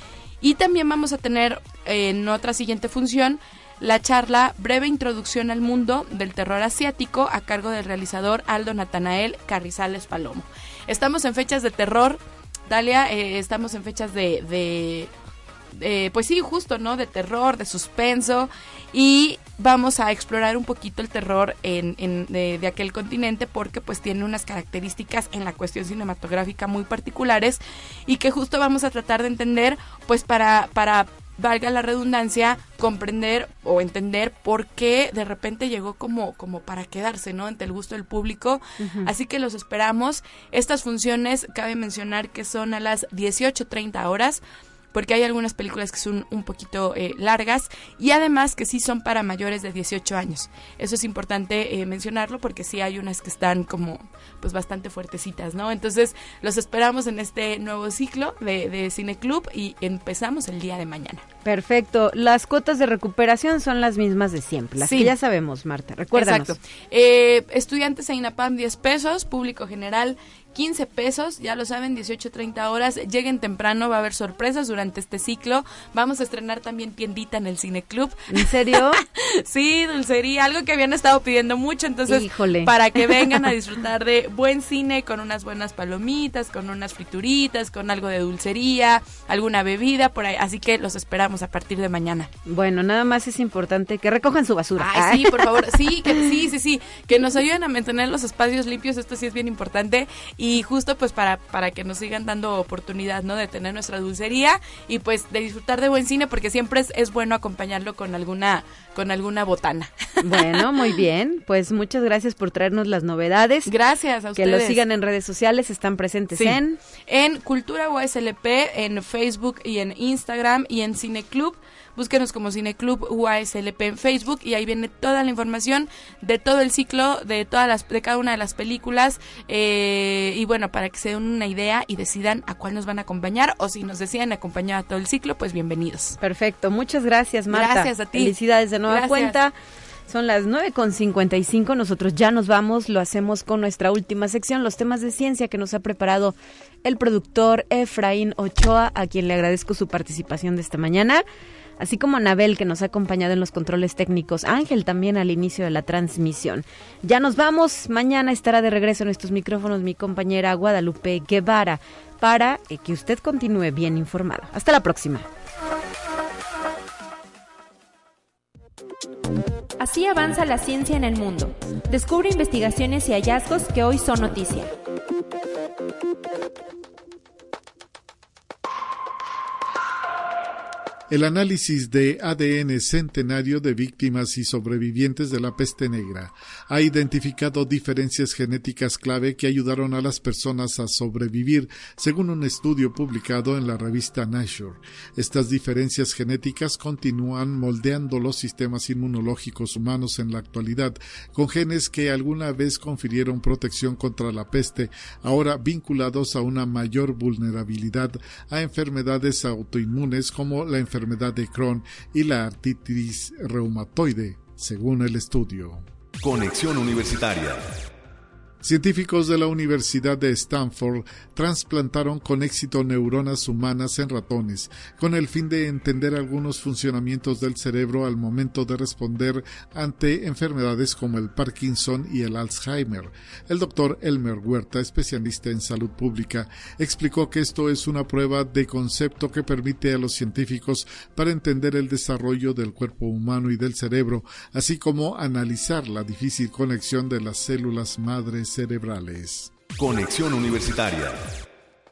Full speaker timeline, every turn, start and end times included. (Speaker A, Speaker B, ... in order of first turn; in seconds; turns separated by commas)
Speaker A: 0.4-15.1, Speaker A: 15.7-44.4, Speaker B: 38.8-39.1, Speaker A: 44.9-61.2, Speaker B: 61.5-66.6, Speaker A: 64.8-65.1, Speaker A: 66.1-92.3, Speaker B: 78.3-79.0, Speaker B: 82.1-83.4, Speaker B: 92.5-96.2, Speaker A: 94.8-110.9, Speaker B: 110.2-113.7, Speaker A: 113.7-114.8, Speaker B: 114.4-116.8, Speaker A: 116.3-136.2, Speaker B: 136.2-139.6, Speaker A: 137.5-138.3, Speaker A: 138.9-139.3, Speaker B: 140.1-151.2, Speaker B: 151.8-165.3, Speaker C: 169.8-174.7, Speaker D: 181.1-215.8, Speaker E: 216.2-217.8, Speaker D: 218.6-249.5, Speaker E: 249.8-251.3